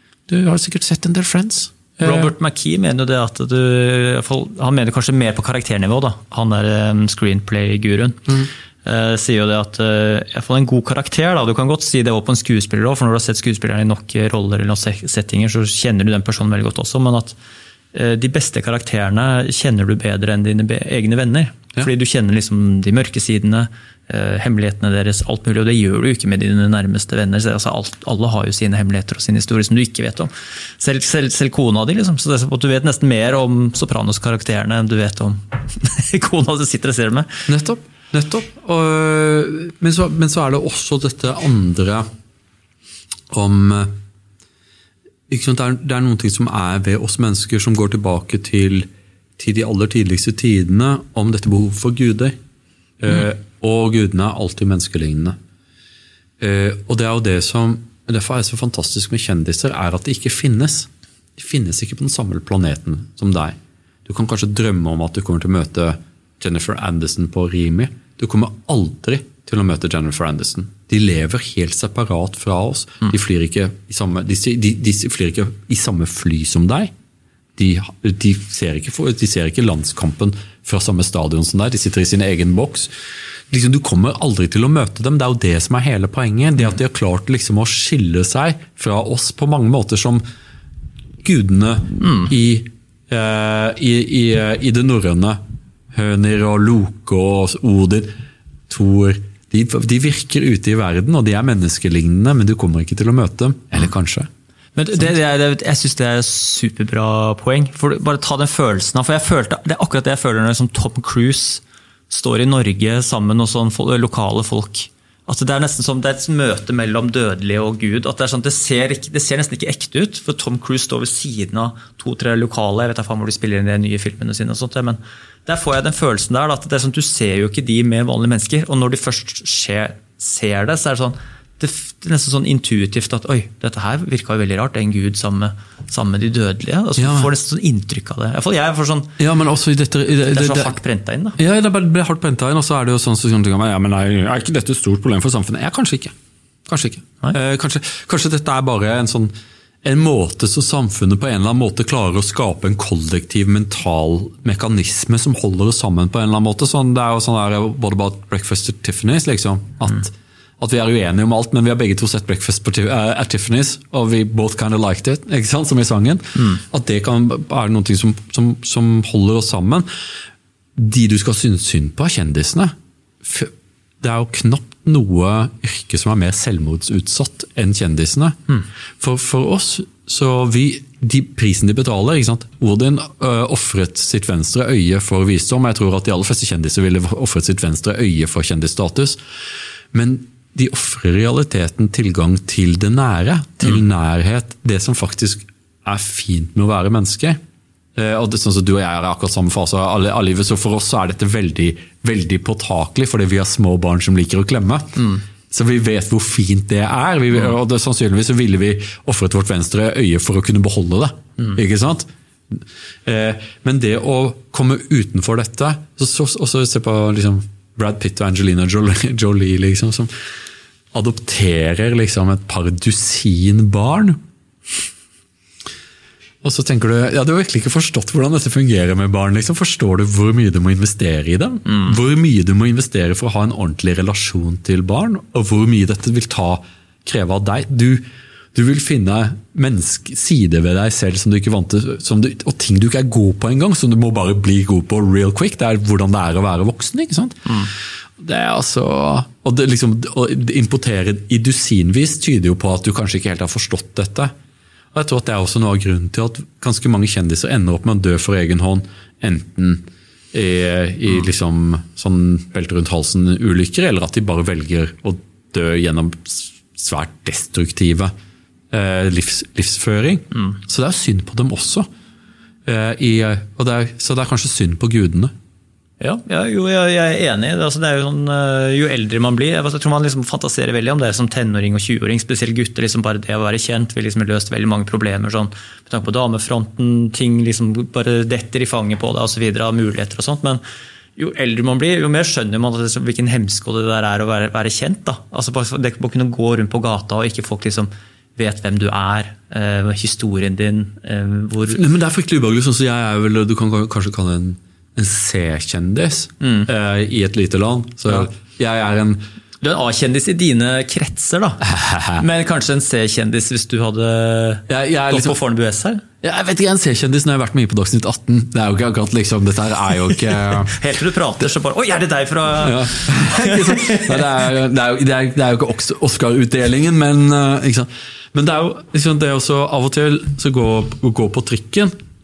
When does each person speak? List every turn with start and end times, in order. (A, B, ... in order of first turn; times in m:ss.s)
0:00.3-0:02.3 A
0:02.0-0:17.4 B
0:17.9-0:37.3 B
0:37.5-0:42.0 A
0:43.3-0:43.9 A
0:45.3-0:48.9 A
0:49.4-0:52.4 A
0:53.0-0:55.4 A
0:56.4-1:16.9 A
1:17.6-1:22.9 A
1:23.5-1:30.2 A
1:31.2-1:35.4 A
1:32.0-1:32.3 B
1:35.9-1:38.1 A
1:38.7-1:44.3 A
1:44.8-2:19.1 B
2:17.0-2:17.3 A
2:19.2-2:20.7 A
2:20.3-2:21.4 B
2:21.4-2:26.1 A
2:26.7-2:29.3 A
2:29.8-2:49.8 A
2:50.8-3:09.2 A
3:09.9-3:17.4 A
3:17.9-3:40.1 A
3:40.9-3:44.2 A
3:46.4-3:58.0 A
3:51.7-3:52.0 B
3:58.5-4:07.5 A
4:07.5-4:07.7 B
4:08.2-4:14.3 A
4:14.9-4:28.1 A
4:28.7-4:31.9 A
4:32.6-4:35.3 A
4:36.0-4:50.6 B
4:51.2-5:01.8 B
5:01.7-5:09.2 A
5:06.4-5:06.7 B
5:09.6-5:16.0 B
5:11.6-5:12.2 A
5:14.7-5:15.4 A
5:16.2-5:20.7 A
5:20.6-5:24.3 B
5:22.6-5:31.9 A